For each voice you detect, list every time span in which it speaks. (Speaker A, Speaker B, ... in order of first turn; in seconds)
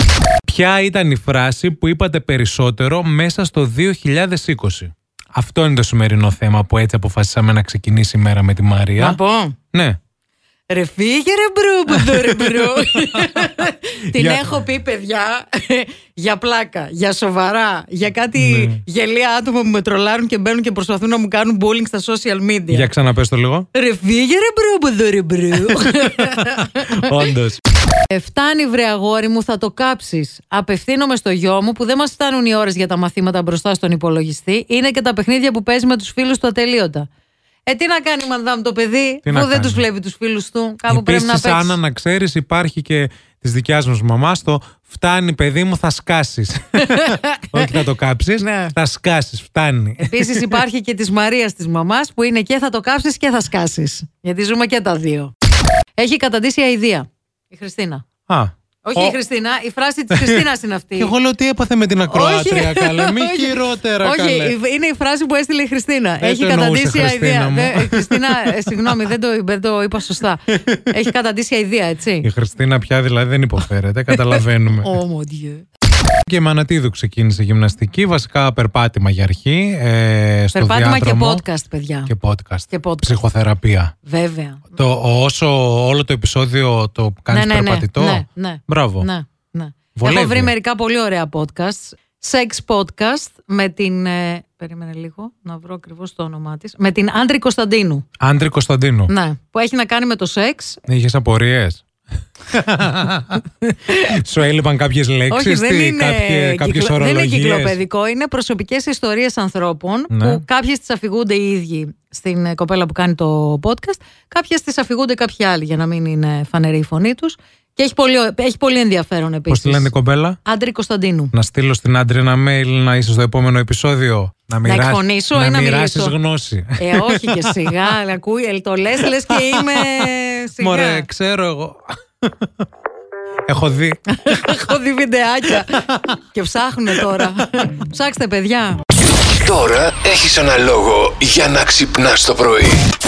Speaker A: 0.5-9.2, 9.7-10.0, 11.9-13.6, 14.1-14.5, 18.4-18.8, 22.7-23.7, 26.6-27.6, 39.2-39.8, 40.9-50.6, 58.3-59.2, 60.1-60.5, 61.0-64.5, 66.2-69.1, 72.2-75.0, 76.2-81.4, 82.1-83.9, 84.7-89.1, 89.9-90.5, 98.2-99.1, 100.9-101.8, 102.5-107.8, 110.1-110.4, 119.5-120.4, 121.3-127.9, 129.0-132.7, 133.5-134.7, 135.5-136.1, 136.9-137.4
Speaker B: 9.0-9.6, 10.7-22.9, 23.7-27.3, 28.1-37.1, 37.6-41.8, 46.8-47.7, 48.4-48.7, 50.0-55.3, 56.0-58.0, 58.8-61.1, 62.1-72.3, 74.1-75.7, 80.5-82.1, 82.7-83.2, 84.0-84.7, 87.3-98.0, 99.1-100.8, 103.8-104.2, 105.3-119.9, 120.4-121.3, 124.6-126.2, 126.8-131.1, 134.1-138.8
Speaker C: 139.3-142.8